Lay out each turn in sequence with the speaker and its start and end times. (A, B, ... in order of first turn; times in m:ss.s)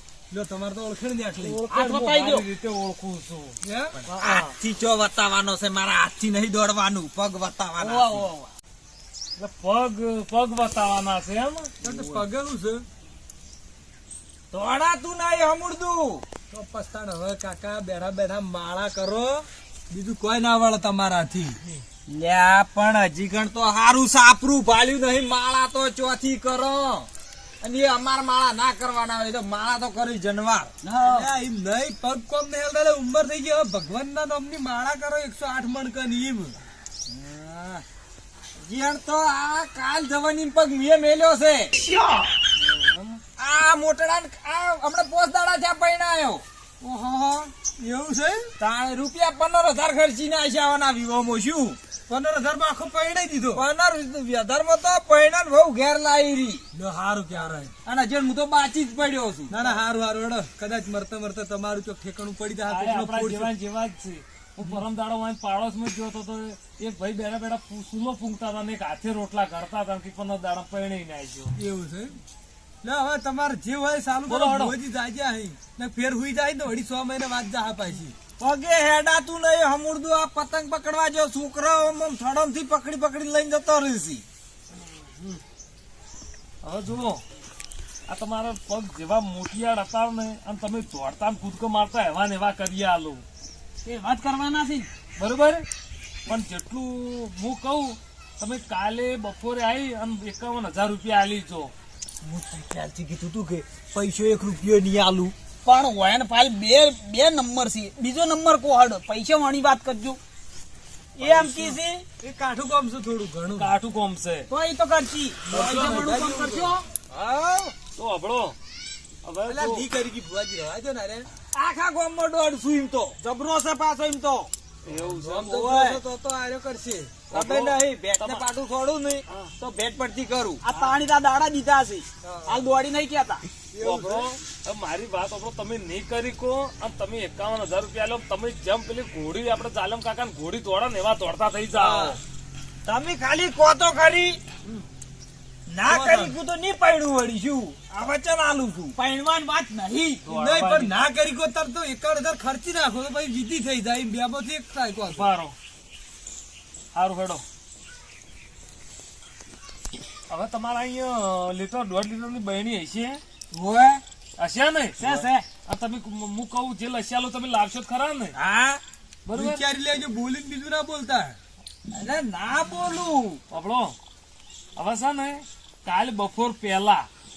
0:00.3-0:01.6 A
0:01.4-0:04.6 B
0:01.7-0:02.4 C
0:03.6-0:04.0 A
0:04.1-0:08.3 D
0:07.8-0:08.5 C
0:09.4-0:11.7 B
0:11.8-0:12.8 A
0:11.8-0:12.2 D
0:14.5-0:16.2 D
0:16.5-0:21.6 A
0:22.1-0:27.1 D
0:27.6-0:30.7 D
0:30.9-0:31.3 C
0:31.0-0:36.6 A
0:37.1-0:37.8 D
0:38.6-0:41.7 D
0:42.6-0:43.2 B
0:43.4-0:46.4 D
0:46.8-0:48.5 A
0:48.6-0:51.8 D
0:52.1-0:53.7 A
0:53.5-0:56.6 D
0:56.7-0:57.7 A
0:57.9-0:59.7 D
0:59.5-1:03.5 A
1:02.7-1:11.6 B
1:11.6-1:12.2 A
1:12.8-1:18.2 A
1:14.3-1:14.8 B
1:18.4-1:24.2 D
1:26.6-1:27.2 B
1:28.1-1:33.2 B
1:33.8-1:34.9 C
1:35.2-1:35.6 B
1:36.3-1:41.7 B
1:42.2-1:45.3 D
1:45.6-1:50.2 C
1:51.2-1:52.0 C
1:52.2-1:53.7 A
1:53.6-1:54.5 B
1:54.5-1:56.8 C
1:55.5-1:56.7 A
1:55.5-1:56.1 B
1:57.1-1:57.7 D
1:58.0-1:58.6 B
1:59.2-1:59.9 B
1:59.5-2:01.3 A
2:01.5-2:03.2 D
2:03.2-2:04.5 C
2:04.8-2:05.6 B
2:04.9-2:07.2 A
2:05.6-2:06.0 C
2:07.3-2:10.6 D
2:07.3-2:08.5 B
2:09.3-2:09.5 B
2:10.6-2:13.4 C
2:12.2-2:12.6 A
2:13.7-2:14.3 A
2:13.8-2:22.2 B
2:21.8-2:22.2 D
2:22.9-2:24.4 D
2:25.7-2:29.0 D
2:25.9-2:26.3 A
2:29.0-2:30.2 C
2:30.3-2:31.0 B
2:30.3-2:35.3 A
2:35.1-2:35.6 B
2:36.9-2:37.4 B
2:40.3-2:43.2 B
2:43.5-2:44.0 D
2:44.4-2:48.3 B
2:45.0-2:45.5 C
2:48.4-2:48.8 D
2:49.3-2:49.6 B
2:49.4-2:51.4 A
2:51.9-2:53.4 D
2:53.5-2:54.0 B
2:54.8-2:57.1 B